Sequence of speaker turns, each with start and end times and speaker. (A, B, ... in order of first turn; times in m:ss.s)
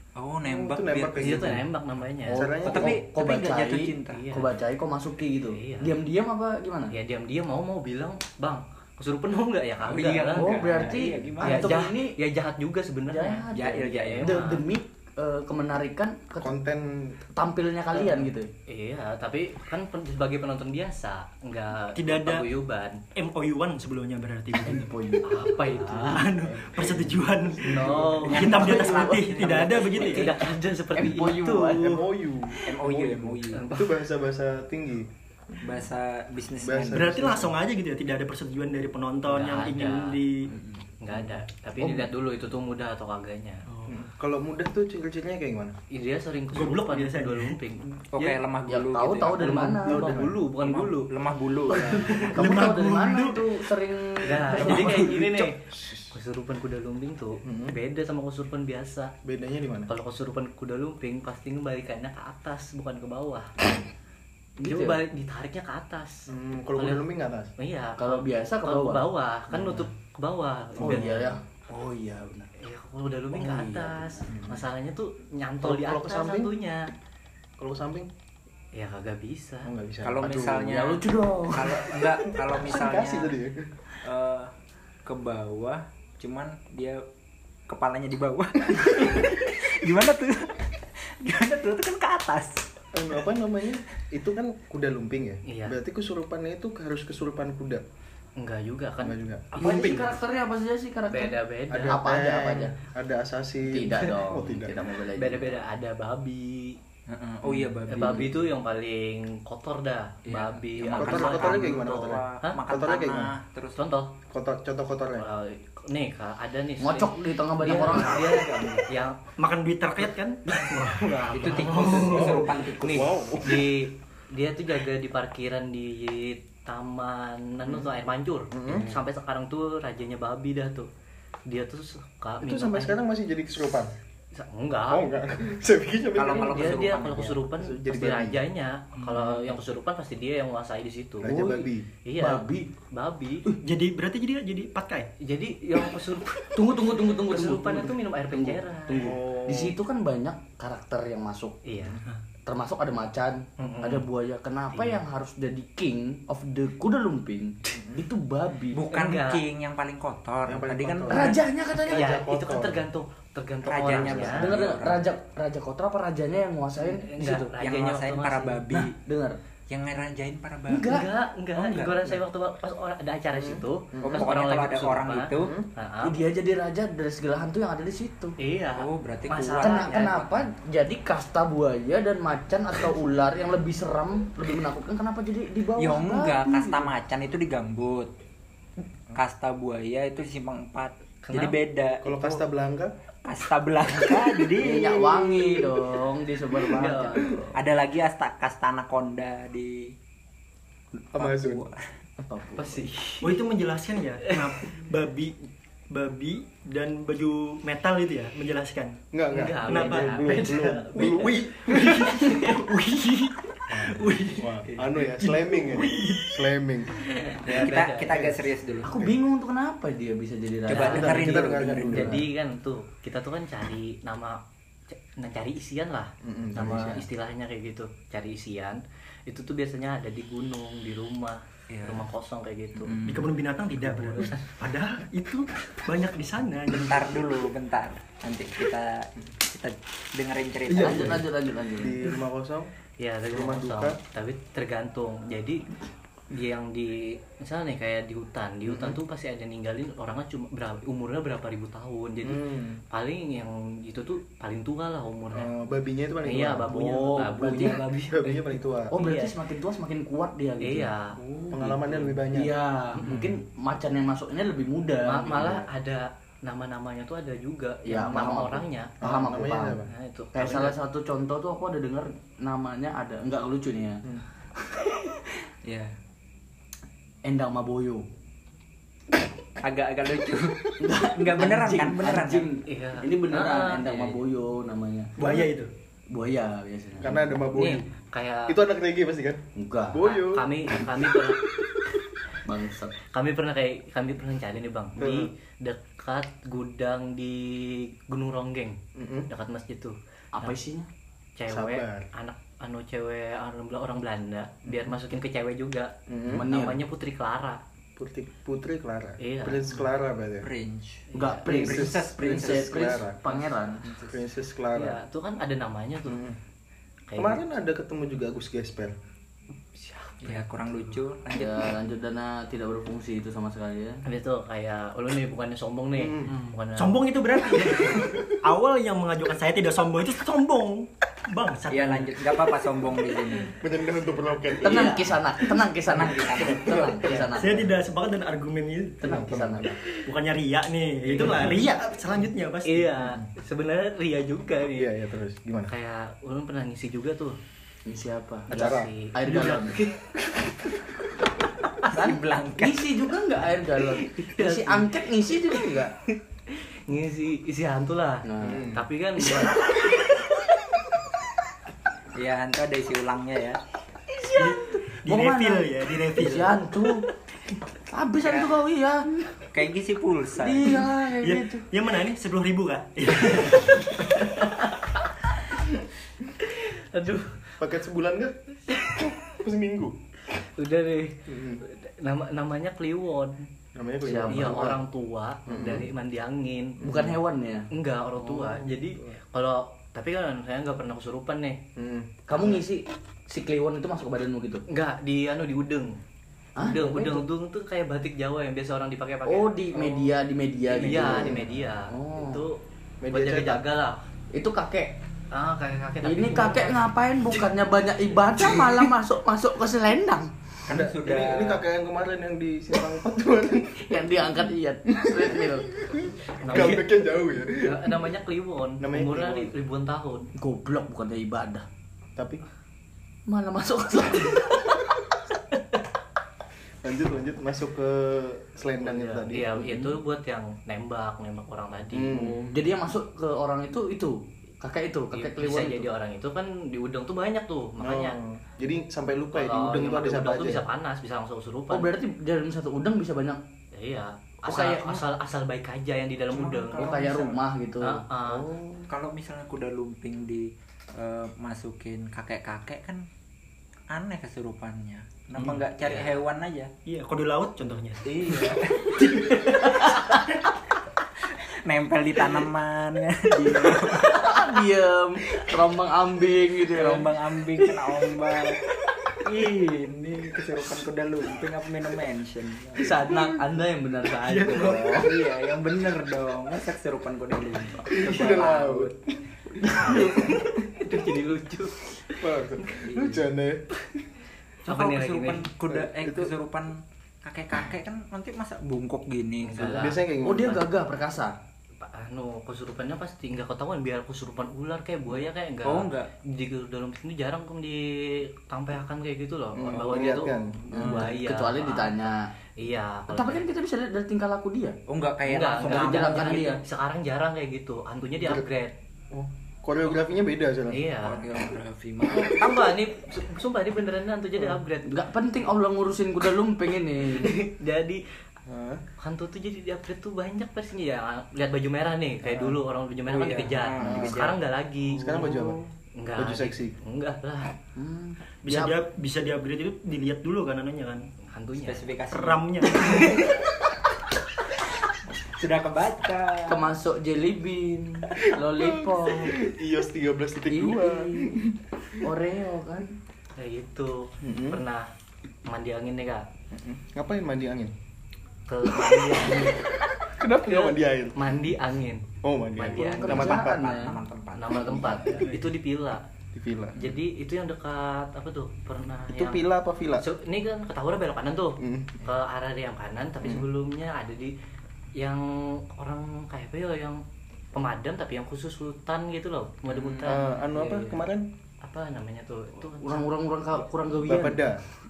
0:00.2-0:01.7 A
0:00.4-0:01.7 B
0:01.2-0:02.5 C
0:02.3-0:03.0 B
0:02.3-0:06.9 D
0:02.6-0:04.3 A
0:04.1-0:04.6 C
0:05.5-0:06.0 C
0:06.9-0:14.6 C
0:09.8-0:11.8 A
0:10.3-0:12.2 D
0:13.1-0:16.5 D
0:13.5-0:14.5 A
0:16.4-0:17.2 B
0:17.3-0:18.5 D
0:18.7-0:23.0 C
0:21.9-0:22.5 E
0:23.1-0:24.9 E
0:24.6-0:26.3 D
0:25.2-0:26.3 C
0:25.9-0:30.3 E
0:26.6-0:27.1 B
0:27.6-0:28.3 B
0:27.6-0:28.8 C
0:27.8-0:29.8 D
0:28.1-0:30.3 A
0:29.7-0:32.0 C
0:30.9-0:32.0 D
0:31.8-0:35.7 B
0:32.6-0:33.7 A
0:33.5-0:34.0 C
0:35.6-0:37.5 A
0:36.6-0:37.5 B
0:36.9-0:40.5 E
0:39.3-0:40.2 C
0:40.5-0:40.9 A
0:41.0-0:43.6 C
0:41.1-0:42.1 B
0:43.7-0:44.0 E
0:43.9-0:45.7 B
0:45.9-0:48.4 C
0:46.5-0:47.6 E
0:48.1-0:52.3 A
0:48.7-0:50.0 D
0:49.4-0:51.1 C
0:49.8-0:50.4 B
0:51.7-0:55.0 D
0:52.2-0:53.6 E
0:54.2-0:59.1 C
0:54.6-0:56.1 B
0:54.6-0:54.9 A
0:57.4-0:57.8 B
0:59.2-0:59.9 B
0:59.9-1:03.5 C
1:04.6-1:05.0 D
1:04.6-1:07.0 C
1:06.3-1:07.5 B
1:07.6-1:11.4 C
1:08.0-1:09.0 D
1:09.5-1:09.8 B
1:10.8-1:11.2 B
1:10.8-1:12.5 D
1:12.6-1:16.9 C
1:13.3-1:14.4 D
1:14.3-1:14.6 B
1:15.6-1:16.5 B
1:17.6-1:18.1 B
1:18.7-1:19.7 C
1:19.6-1:20.7 B
1:20.0-1:23.4 A
1:20.3-1:22.0 D
1:22.5-1:23.7 B
1:24.0-1:24.5 A
1:25.0-1:27.0 A
1:27.7-1:32.6 A
1:32.9-1:37.8 B
1:35.4-1:35.8 C
1:38.4-1:40.2 C
1:39.0-1:39.5 B
1:39.6-1:42.7 D
1:41.1-1:42.0 C
1:41.7-1:44.9 B
1:43.6-1:45.6 D
1:45.1-1:46.8 C
1:47.1-1:48.5 A
1:47.4-1:47.8 B
1:47.9-1:52.6 C
1:50.2-1:53.8 A
1:51.0-1:53.4 B
1:53.8-1:54.1 C
1:54.3-1:55.3 B
1:55.2-1:59.2 C
1:56.8-1:58.4 D
1:57.6-1:58.9 A
1:59.4-2:02.2 E
2:00.0-2:10.9 C
2:01.3-2:03.1 A
2:02.0-2:03.7 B
2:08.5-2:08.9 B
2:11.5-2:13.0 C
2:12.4-2:13.9 B
2:14.3-2:15.1 C
2:14.9-2:17.0 B
2:16.1-2:17.4 A
2:16.3-2:21.4 C
2:17.6-2:18.4 B
2:19.0-2:19.4 E
2:21.2-2:21.9 B
2:21.2-2:21.6 D
2:22.0-2:23.4 C
2:22.2-2:22.7 D
2:23.6-2:25.1 E
2:25.2-2:29.1 C
2:26.5-2:31.6 D
2:29.0-2:29.8 B
2:31.6-2:32.0 C
2:32.5-2:38.8 D
2:33.6-2:34.0 C
2:34.7-2:35.0 C
2:37.7-2:38.0 B
2:38.7-2:41.4 A
2:38.9-2:39.4 C
2:40.4-2:42.8 B
2:41.1-2:42.1 D
2:41.9-2:44.5 C
2:43.6-2:45.1 A
2:44.2-2:47.5 D
2:46.8-2:48.6 C
2:47.6-2:49.0 A
2:48.7-2:49.4 D
2:49.7-2:51.0 A
2:50.7-2:51.1 D
2:50.9-2:56.2 C
2:51.5-2:52.2 A
2:53.3-2:54.3 B
2:54.0-2:55.5 A
2:55.4-2:55.6 B
2:56.0-2:58.4 D
2:58.4-3:00.3 C
2:58.8-3:00.3 A
2:59.6-3:06.9 D
3:05.8-3:08.1 A
3:09.1-3:12.4 A
3:11.2-3:11.6 C
3:12.0-3:12.9 B
3:13.2-3:15.2 A
3:14.5-3:17.4 D
3:16.6-3:17.6 C
3:17.5-3:19.9 A
3:21.1-3:21.6 B
3:21.2-3:21.8 A
3:22.2-3:22.8 D
3:22.6-3:23.4 C
3:23.2-3:25.4 E
3:24.2-3:24.5 C
3:25.9-3:29.0 E
3:29.1-3:32.0 B
3:29.3-3:32.6 C
3:29.6-3:34.5 E
3:33.7-3:39.1 B
3:35.0-3:36.4 E
3:37.0-3:38.2 C
3:37.4-3:39.0 A
3:38.8-3:42.2 D
3:40.7-3:42.2 A
3:40.8-3:41.1 C
3:40.9-3:42.2 B
3:41.9-3:52.9 C
3:46.2-3:47.0 B
3:46.6-3:46.9 D
3:51.7-3:52.0 A
3:52.8-3:53.3 A
3:53.0-3:57.2 E
3:54.2-3:54.4 C
3:56.7-4:01.2 A
4:00.7-4:01.2 B
4:00.8-4:01.9 D
4:01.7-4:02.7 B
4:03.0-4:05.7 C
4:03.3-4:04.0 B
4:06.3-4:15.5 C
4:08.7-4:09.0 B
4:12.2-4:12.8 B
4:15.3-4:18.9 B
4:16.2-4:18.4 C
4:16.8-4:18.2 D
4:18.9-4:20.9 D
4:18.9-4:19.3 C
4:20.6-4:22.2 C
4:21.5-4:22.5 B
4:22.3-4:25.6 D
4:22.9-4:23.3 C
4:25.0-4:29.0 C
4:27.8-4:29.8 D
4:29.0-4:29.9 B
4:29.9-4:30.8 C
4:30.3-4:34.0 D
4:34.7-4:35.1 D
4:35.6-4:35.9 A
4:37.2-4:38.0 D
4:39.6-4:42.5 A
4:40.8-4:45.2 D
4:42.7-4:44.1 C
4:45.2-4:45.7 E
4:46.1-4:47.2 D
4:47.0-4:47.8 B
4:47.5-4:48.6 C
4:48.5-4:50.5 B
4:49.6-4:50.0 D
4:50.0-4:51.4 C
4:52.4-4:52.9 D
4:53.0-5:00.5 C
4:55.0-4:55.3 B
4:58.9-4:59.3 B
5:00.3-5:00.9 D
5:01.4-5:07.6 C
5:01.5-5:02.1 B
5:04.6-5:04.9 B
5:06.1-5:06.4 B
5:06.3-5:06.8 D
5:08.0-5:10.5 B
5:09.2-5:09.9 C
5:10.4-5:14.2 A
5:11.1-5:11.4 C
5:11.2-5:13.9 D
5:11.5-5:13.2 B
5:14.1-5:15.0 B
5:14.7-5:16.2 C
5:16.0-5:16.4 B
5:17.1-5:17.4 C
5:17.2-5:18.9 B
5:19.7-5:21.0 C
5:20.2-5:21.7 A
5:21.3-5:24.0 D
5:24.0-5:27.0 C
5:26.0-5:26.3 B
5:26.8-5:32.4 E
5:27.8-5:28.2 B
5:31.7-5:33.6 A
5:33.6-5:35.2 B
5:34.6-5:37.7 D
5:35.8-5:37.2 A
5:36.6-5:37.3 B
5:37.3-5:39.0 E
5:39.0-5:39.7 D
5:39.0-5:39.8 B
5:40.0-5:43.1 E
5:41.1-5:41.6 B
5:42.6-5:44.9 C
5:43.0-5:43.3 B
5:44.8-5:45.7 B
5:45.7-5:47.4 C
5:47.9-5:49.8 D
5:48.5-5:48.9 B
5:48.5-5:50.2 C
5:51.8-5:52.9 A
5:51.9-5:55.9 D
5:53.8-5:55.0 C
5:56.5-6:00.2 C
5:58.2-5:58.7 D
5:58.4-5:58.8 B
6:02.1-6:03.6 A
6:04.1-6:07.1 D
6:04.4-6:06.7 E
6:07.9-6:09.3 D
6:08.2-6:08.5 A
6:09.5-6:10.9 A
6:10.4-6:11.7 D
6:11.2-6:14.0 E
6:16.4-6:17.6 C
6:17.6-6:18.4 B
6:18.7-6:19.1 C
6:18.9-6:20.0 B
6:20.4-6:23.5 C
6:21.3-6:21.6 B
6:23.7-6:24.8 B
6:24.0-6:24.7 D
6:24.1-6:26.8 C
6:25.5-6:25.9 B
6:26.8-6:27.2 B
6:26.8-6:27.7 D
6:27.7-6:31.6 C
6:28.2-6:29.2 B
6:31.8-6:32.6 B
6:32.3-6:34.6 D
6:34.7-6:36.0 C
6:36.6-6:37.2 D
6:36.6-6:40.1 C
6:39.2-6:42.4 D
6:40.7-6:42.6 C
6:40.8-6:41.7 B
6:43.0-6:43.6 B
6:43.1-6:44.0 C
6:44.3-6:44.9 D
6:45.3-6:46.9 C
6:46.0-6:50.3 D
6:50.7-6:51.6 A
6:50.7-6:54.3 B
6:53.8-6:55.7 D
6:54.9-6:58.0 B
6:56.4-6:56.9 C
6:57.6-7:00.3 C
6:58.8-6:59.5 B
7:00.4-7:01.6 D
7:02.2-7:02.4 B
7:03.3-7:04.7 D
7:06.8-7:09.5 B
7:08.8-7:12.3 C
7:09.5-7:10.0 D
7:11.9-7:12.5 B
7:12.4-7:15.9 D
7:15.1-7:18.2 C
7:17.8-7:20.6 B
7:19.3-7:21.9 C
7:21.7-7:23.4 D
7:23.7-7:26.9 C
7:24.4-7:25.0 D
7:26.3-7:27.4 A
7:26.8-7:28.0 D
7:27.8-7:28.5 C
7:28.2-7:28.9 B
7:28.9-7:33.0 A
7:33.9-7:36.7 A
7:35.8-7:36.1 C
7:36.8-7:38.0 E
7:38.0-7:39.1 A
7:38.3-7:40.5 D
7:41.3-7:44.5 A
7:43.5-7:47.1 D
7:46.7-7:48.6 A
7:49.1-7:53.3 A
7:52.8-7:55.2 D
7:54.2-7:54.8 E
7:54.6-7:58.9 A
7:57.9-7:59.0 B
7:59.8-8:00.4 B
7:59.8-8:02.7 C
8:02.2-8:03.6 B
8:02.8-8:03.2 A
8:04.6-8:05.5 C
8:04.6-8:09.9 A
8:05.7-8:06.3 B
8:09.4-8:10.0 C
8:09.6-8:10.7 B
8:10.2-8:11.3 D
8:11.8-8:22.0 C
8:15.6-8:16.1 A
8:19.5-8:21.0 B
8:20.8-8:21.0 A
8:20.8-8:22.2 D
8:22.6-8:23.4 C
8:23.1-8:24.8 D
8:24.9-8:26.6 A
8:25.2-8:28.7 C
8:25.6-8:26.6 D
8:29.1-8:30.9 B
8:30.7-8:31.3 C
8:31.0-8:32.7 A
8:32.1-8:34.9 C
8:34.8-8:37.3 D
8:37.1-8:38.0 C
8:38.4-8:38.8 B
8:39.0-8:47.5 C
8:43.1-8:44.4 A
8:43.8-8:44.2 B
8:44.8-8:45.6 B
8:46.2-8:46.7 B
8:47.8-8:48.8 D
8:48.4-8:51.1 E
8:51.3-8:51.8 C
8:51.6-8:53.4 A
8:52.1-8:53.2 E
8:55.4-8:56.7 A
8:56.5-8:59.4 D
8:58.2-9:02.0 B
9:00.5-9:01.4 D
9:02.0-9:02.9 D
9:03.4-9:04.9 C
9:04.2-9:04.6 B
9:05.4-9:06.3 C
9:06.5-9:07.7 B
9:08.5-9:09.7 C
9:08.9-9:09.1 B
9:10.0-9:11.3 B
9:10.4-9:12.0 C
9:12.2-9:13.8 B
9:12.6-9:13.4 C
9:12.8-9:14.0 D
9:13.0-9:15.0 A
9:14.3-9:16.0 C
9:14.7-9:15.2 B
9:16.3-9:16.8 B
9:16.8-9:19.4 C
9:19.1-9:20.0 B
9:20.0-9:24.3 C
9:21.6-9:22.0 B
9:25.0-9:27.0 C
9:27.5-9:30.9 C
9:29.7-9:30.2 A
9:30.0-9:31.3 B
9:31.6-9:33.1 C
9:32.8-9:34.4 D
9:34.0-9:34.6 B